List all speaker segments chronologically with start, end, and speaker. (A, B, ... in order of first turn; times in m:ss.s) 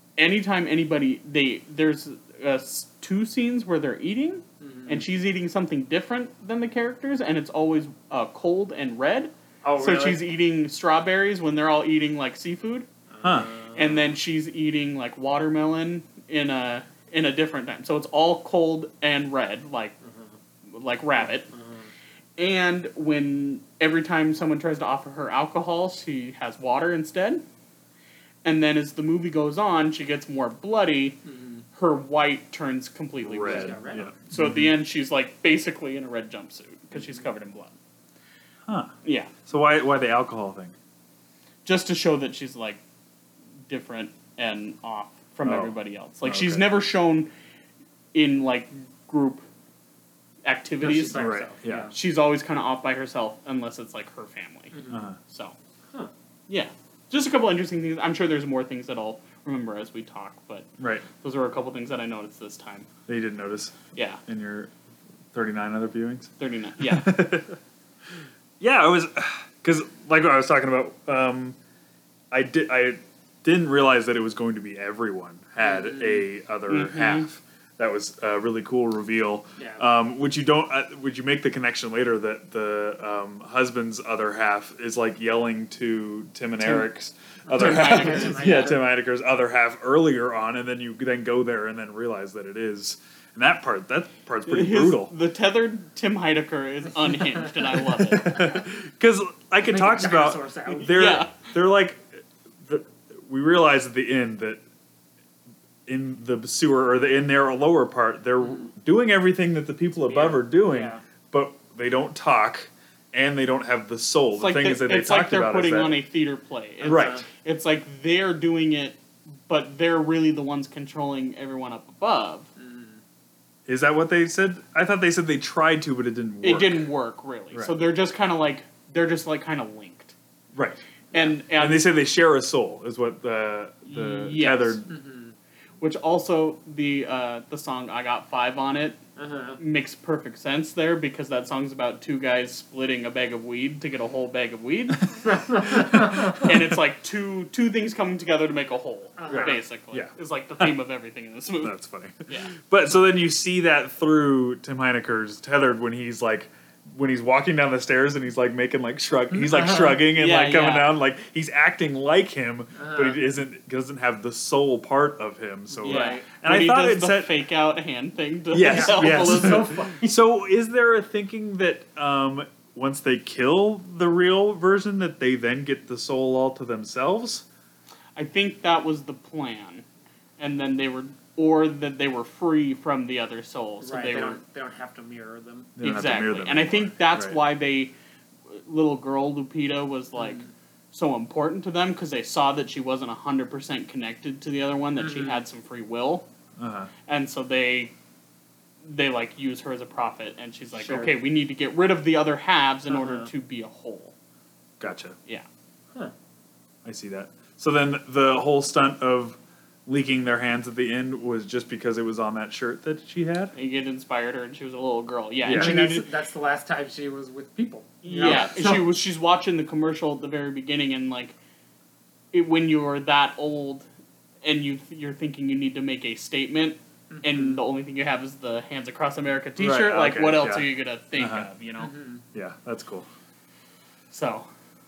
0:00.2-0:12.9 A
0:04.6-0:05.0 B
0:09.6-0:10.2 B
0:13.1-0:14.2 B
0:13.2-0:13.5 C
0:13.8-0:20.0 A
0:20.0-0:20.3 B
0:20.7-0:21.5 A
0:21.2-0:21.9 B
0:22.4-0:27.4 A
0:28.4-0:31.2 A
0:31.2-0:31.6 B
0:31.7-0:33.8 A
0:33.2-0:34.7 C
0:33.4-0:34.1 B
0:34.3-0:37.8 A
0:38.7-0:39.0 C
0:39.0-0:39.3 A
0:39.5-0:40.7 C
0:41.6-0:42.8 A
0:43.7-0:47.3 A
0:45.4-0:46.7 C
0:48.1-0:49.5 A
0:50.4-0:51.2 A
0:50.8-0:51.9 B
0:51.1-0:51.9 C
0:51.9-0:55.6 A
0:54.7-0:55.1 B
0:54.9-0:55.2 C
0:56.5-1:02.9 A
1:00.8-1:01.1 C
1:03.1-1:04.7 C
1:04.0-1:04.2 A
1:05.3-1:07.6 C
1:06.4-1:07.1 A
1:08.1-1:11.6 C
1:12.3-1:35.1 C
1:15.6-1:16.2 B
1:16.7-1:17.3 A
1:19.6-1:19.8 B
1:27.5-1:28.8 B
1:27.5-1:28.7 A
1:34.5-1:38.5 A
1:37.1-1:38.6 B
1:38.1-1:42.1 C
1:39.7-1:41.0 B
1:40.9-1:41.3 A
1:42.6-1:44.6 C
1:45.9-1:56.0 C
1:48.4-1:48.7 B
1:50.0-1:51.0 B
1:54.4-2:02.5 A
1:56.8-1:57.3 B
1:56.8-1:57.2 C
2:02.6-2:03.0 B
2:03.7-2:06.9 C
2:06.4-2:10.2 A
2:10.5-2:10.8 C
2:11.1-2:11.9 A
2:11.4-2:14.9 C
2:13.9-2:14.8 A
2:14.9-2:15.4 B
2:15.8-2:19.0 A
2:19.2-2:19.6 B
2:19.6-2:25.1 A
2:25.2-2:26.4 B
2:25.8-2:26.7 C
2:26.2-2:31.8 A
2:29.2-2:29.6 B
2:29.3-2:30.7 C
2:31.6-2:47.3 C
2:32.3-2:32.5 A
2:39.3-2:40.0 B
2:39.6-2:40.9 A
2:42.8-2:43.2 B
2:45.7-2:46.3 B
2:45.8-2:49.8 A
2:48.5-2:57.4 C
2:48.6-2:50.2 B
2:58.2-2:59.8 A
3:00.4-3:04.4 A
3:03.8-3:05.7 B
3:05.8-3:07.4 C
3:05.8-3:07.9 A
3:08.5-3:16.3 A
3:10.2-3:10.5 B
3:15.0-3:15.4 B
3:16.6-3:16.9 C
3:17.1-3:17.9 A
3:18.8-3:24.1 A
3:20.8-3:21.1 B
3:22.9-3:23.3 B
3:24.8-3:25.2 C
3:26.8-3:33.5 C
3:33.6-3:36.1 A
3:35.4-3:35.8 C
3:35.5-3:38.9 B
3:38.0-3:41.4 A
3:38.2-3:38.5 C
3:42.3-3:43.9 A
3:44.4-3:51.9 A
3:47.1-3:47.6 B
3:49.6-3:51.5 C
3:51.8-3:52.2 B
3:52.3-3:53.1 C
3:54.1-3:54.5 A